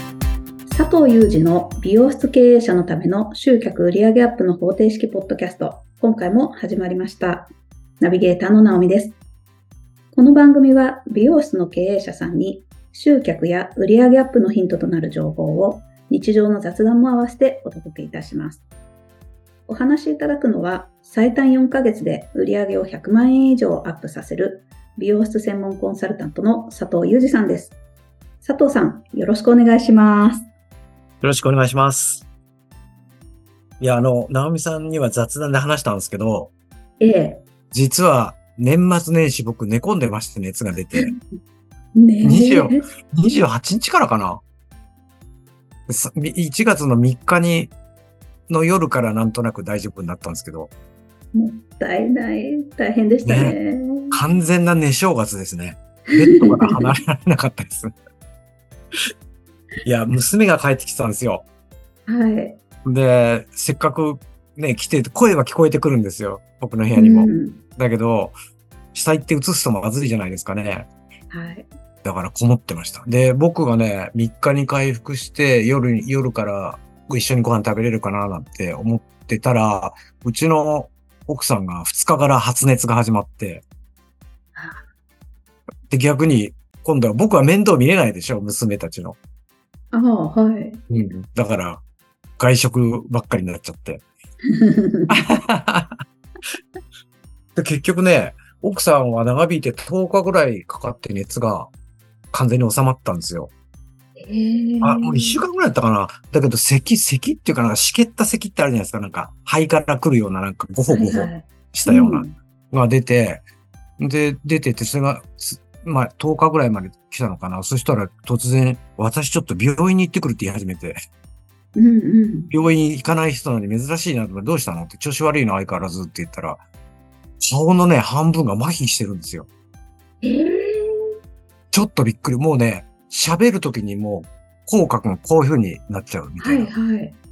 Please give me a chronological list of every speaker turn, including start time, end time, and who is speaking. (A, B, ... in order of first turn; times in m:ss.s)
0:00.7-0:09.2 A
0:10.1-0:18.6 A
0:19.7-0:27.8 A
0:28.4-0:30.5 A
0:31.2-0:32.2 B
0:33.8-0:36.5 B
0:37.0-0:37.4 A
0:37.7-0:41.1 B
0:42.0-0:42.8 A
0:42.2-0:44.4 B
0:45.9-0:47.7 B
0:48.5-0:50.7 B
0:51.3-0:54.2 A
0:53.2-0:53.6 B
0:54.1-0:57.9 B
0:56.3-0:56.9 A
0:59.8-1:01.5 B
1:02.1-1:02.6 A
1:02.8-1:08.4 B
1:07.0-1:07.6 A
1:08.9-1:10.9 B
1:11.3-1:11.7 A
1:12.0-1:23.6 B
1:24.6-1:24.8 A
1:25.9-1:29.2 B
1:29.9-1:30.8 A
1:30.9-1:31.8 B
1:32.4-1:34.0 B
1:34.5-1:35.2 A
1:35.1-1:36.0 B
1:37.6-1:41.7 B
1:42.3-1:43.5 B
1:44.2-1:45.4 A
1:44.8-1:53.4 B
1:50.9-1:52.4 A
1:54.0-2:01.0 B
2:01.8-2:02.5 A
2:02.5-2:06.6 B
2:07.4-2:09.5 B
2:10.2-2:11.1 A
2:11.7-2:16.7 B
2:16.4-2:17.2 A